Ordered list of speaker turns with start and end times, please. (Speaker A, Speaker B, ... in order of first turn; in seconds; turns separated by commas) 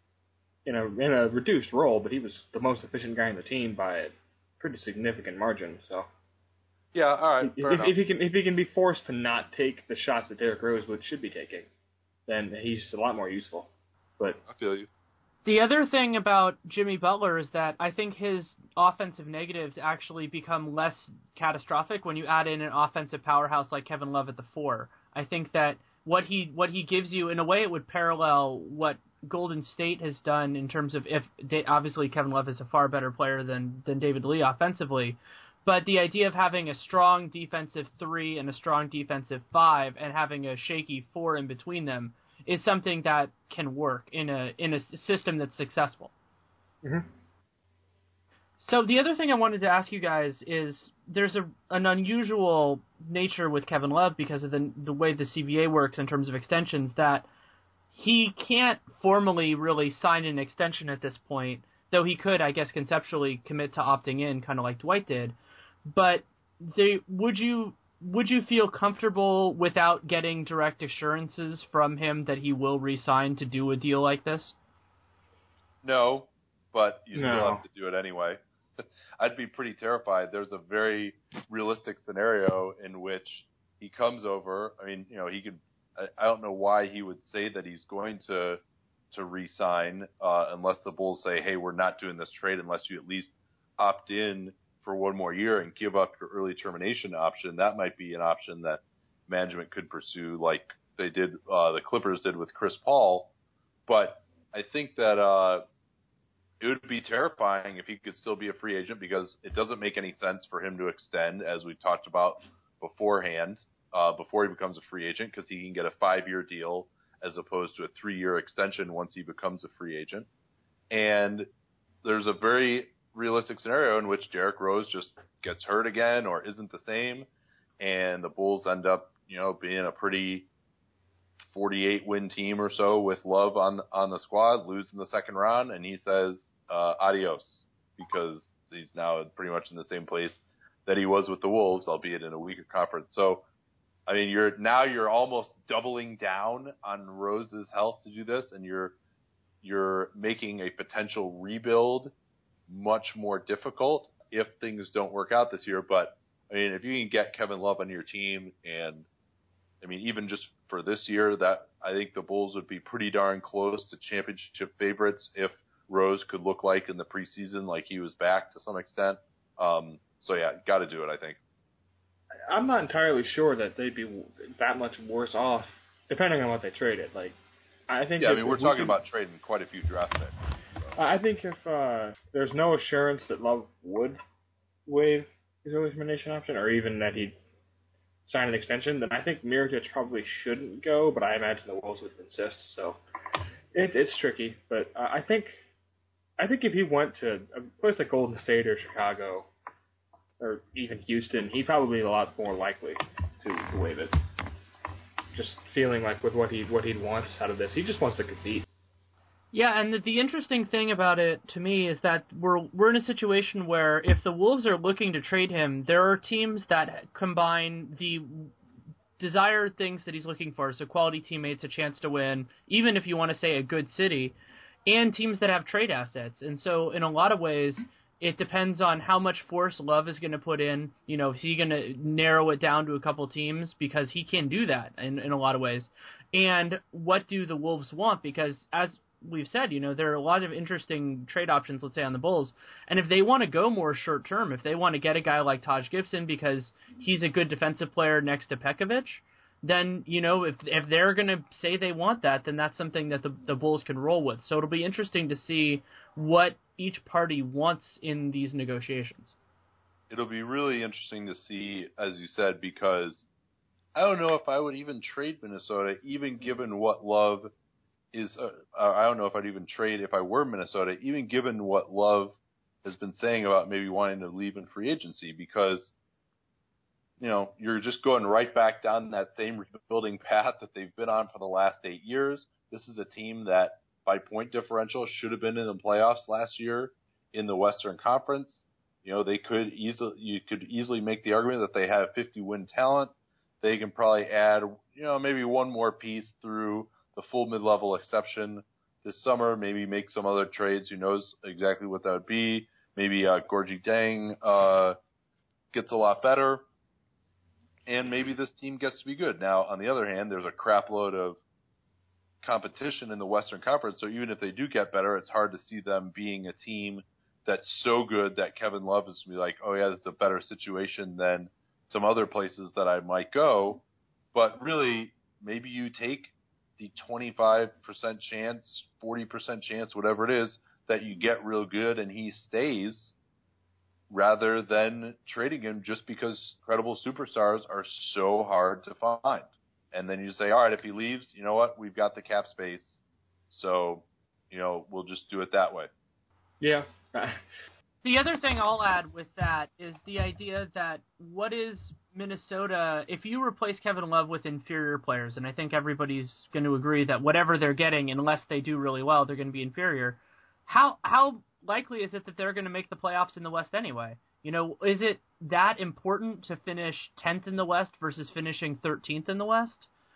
Speaker A: 0.7-6.1, Speaker B: 6.9-8.0, Speaker A: 7.4-11.7, Speaker A: 12.3-14.4, Speaker B: 14.5-14.9, Speaker C: 15.4-46.1, Speaker A: 46.8-47.1, Speaker C: 48.6-57.3, Speaker C: 57.9-65.4, Speaker C: 65.9-74.5, Speaker B: 75.8-88.6, Speaker A: 77.1-77.6, Speaker B: 89.1-103.3, Speaker B: 103.9-105.7, Speaker B: 106.6-120.3, Speaker B: 120.9-121.5, Speaker B: 122.0-127.3, Speaker B: 127.8-130.5, Speaker B: 131.5-143.5, Speaker B: 144.1-149.0, Speaker B: 149.6-152.1, Speaker B: 152.7-159.1, Speaker B: 159.8-171.4, Speaker A: 172.5-177.4, Speaker A: 177.9-179.0, Speaker B: 178.2-180.9, Speaker A: 181.0-184.2, Speaker A: 184.9-187.4, Speaker A: 188.3-193.0, Speaker A: 193.7-195.6, Speaker A: 196.4-199.5, Speaker A: 200.4-204.2, Speaker A: 205.3-208.7, Speaker C: 209.5-218.5, Speaker C: 219.2-259.4, Speaker B: 260.1-263.3, Speaker B: 263.9-267.5, Speaker B: 268.1-275.9, Speaker B: 277.2-305.0, Speaker B: 305.7-306.7, Speaker B: 307.9-311.4, Speaker B: 312.4-333.1, Speaker B: 334.1-345.9, Speaker A: 346.6-347.4, Speaker C: 348.0-369.9